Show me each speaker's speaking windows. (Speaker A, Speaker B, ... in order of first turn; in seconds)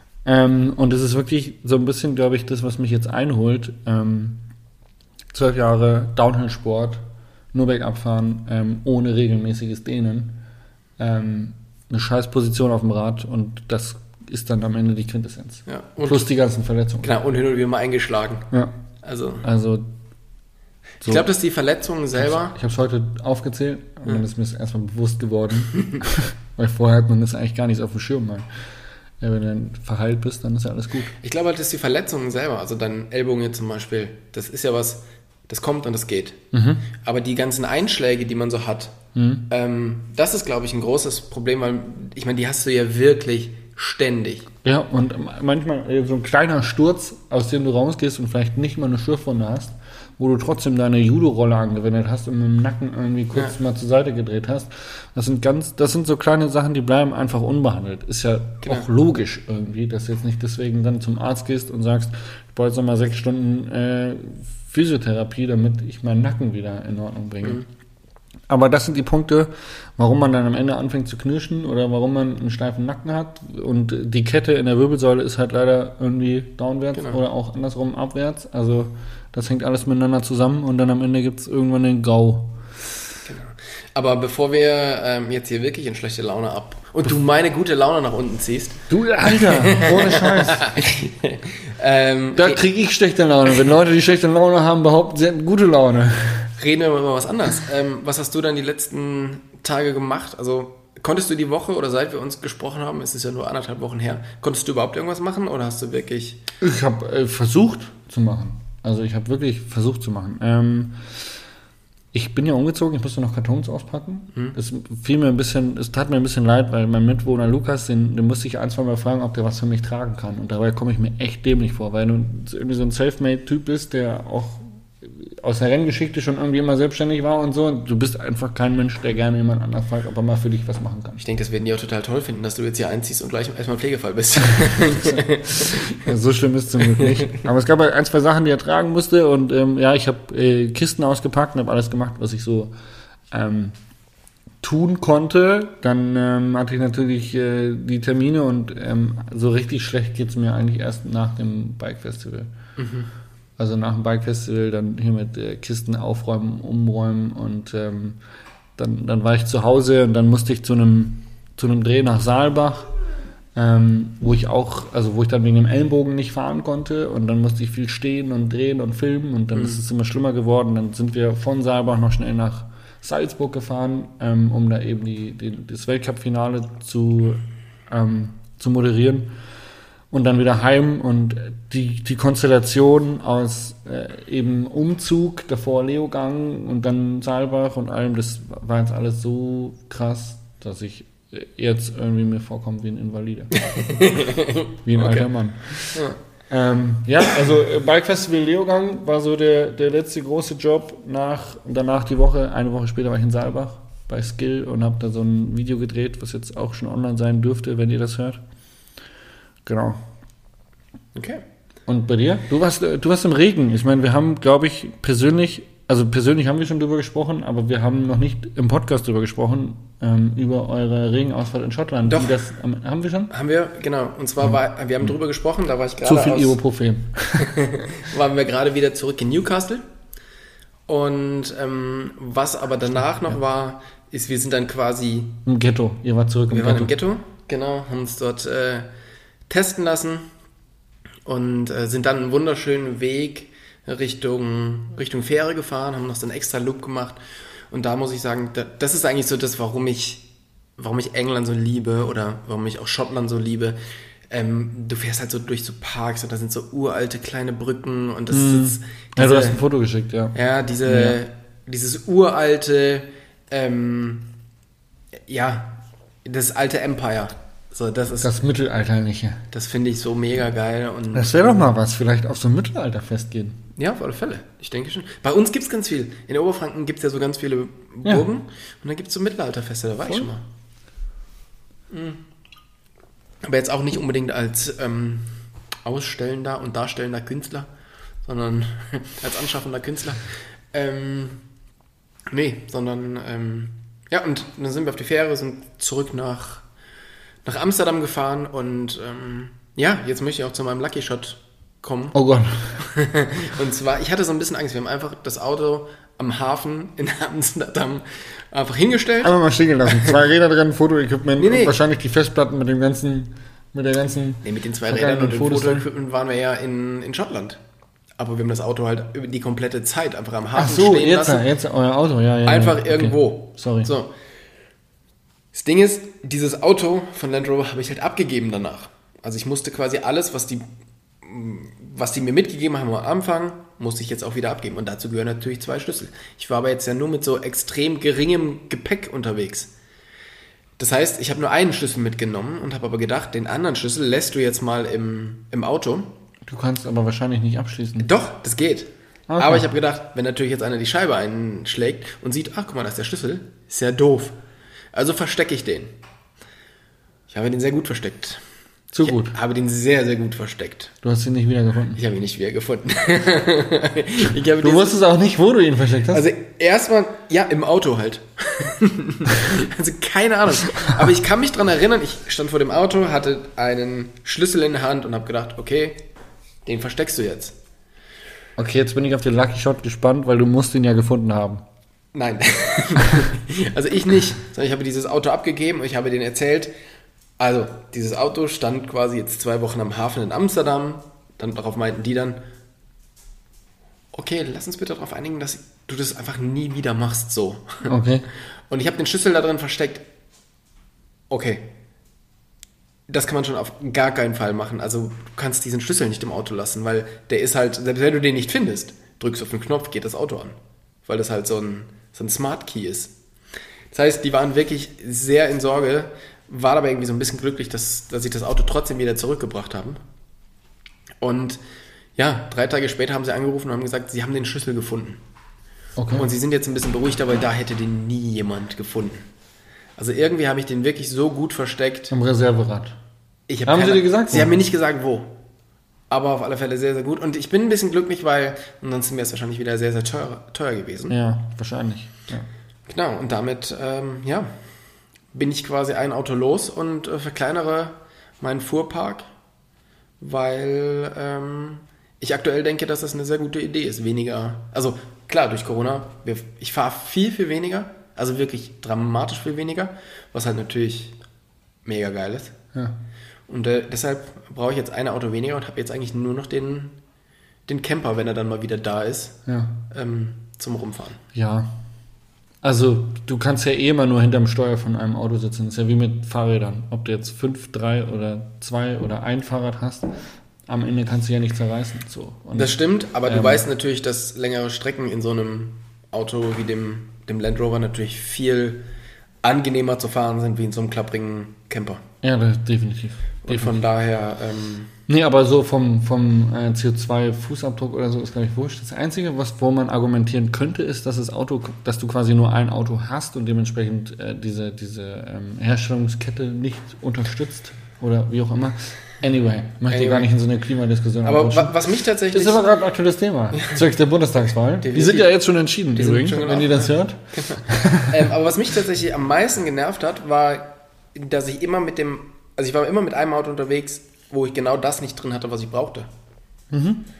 Speaker A: 0.2-4.4, 5.3-10.4, 11.0-17.1, 19.4-19.9, 21.0-21.3, 22.2-28.5, 29.2-31.1, 36.5-36.8, 39.1-39.4, 44.6-67.6, 68.5-82.5, 88.9-90.9, 92.3-96.5, 106.6-111.2, 112.1-131.2, 135.6-142.7, 143.3-143.7, 144.6-152.5, 153.6-158.2, 158.8-162.9, 163.5-179.3, 180.1-193.6, 194.8-208.4, 209.7-210.0, 211.9-223.3, 226.0-227.6, 235.4-236.9, 258.3-260.3, 260.9-261.2, 268.2-269.4, 271.1-273.6, 302.1-302.8, 309.2-315.9, 320.6-323.9, 346.4-348.1, 349.3-349.7, 358.9-359.3, 361.0-362.0, 364.6-366.2, 378.6-381.6, 397.9-398.3, 425.9-426.3, 432.1-432.9, 433.6-434.5, 441.1-442.4, 469.5-469.8, 471.3-471.8, 472.6-480.1, 480.7-483.6, 492.2-493.8, 495.1-518.2, 526.7-527.0
Speaker B: 15.7-16.3, 17.0-18.5, 19.0-19.4, 21.0-22.5, 31.2-36.4, 37.0-38.9, 39.5-44.5, 58.6-58.9, 76.9-77.2, 83.2-92.6, 96.6-106.4, 131.2-136.1, 136.8-137.4, 152.8-153.1, 169.5-169.8, 193.6-195.3, 195.9-196.2, 211.1-211.4, 222.1-222.4, 223.3-226.6, 227.4-229.8, 230.9-235.4, 236.5-238.9, 239.5-240.2, 241.2-247.2, 247.7-250.2, 250.8-253.8, 254.3-259.6, 260.3-264.3, 265.3-268.3, 269.5-271.7, 273.8-280.4, 281.9-282.2, 283.4-285.3, 285.8-287.7, 288.2-291.4, 292.3-296.6, 297.4-302.2, 302.8-310.2, 311.4-311.8, 314.4-317.6, 318.2-321.4, 322.4-324.1, 325.5-330.6, 331.2-339.7, 340.8-346.1, 348.0-354.4, 354.9-355.9, 357.3-358.4, 359.0-360.9, 361.9-365.0, 366.1-376.0, 376.6-377.6, 382.1-386.7, 387.4-392.4, 394.1-397.9, 398.7-400.0, 401.3-401.7, 403.1-413.1, 413.9-420.0, 421.2-421.6, 422.1-425.2, 426.1-429.2, 430.0-432.1, 433.5-435.3, 436.1-441.1, 442.9-444.5, 445.3-449.2, 450.2-461.1, 461.8-462.5, 463.5-466.9, 467.7-471.2, 482.6-488.8, 489.4-492.0, 493.4-494.9, 509.9-510.2, 511.2-512.6, 514.8-515.3, 515.9-526.1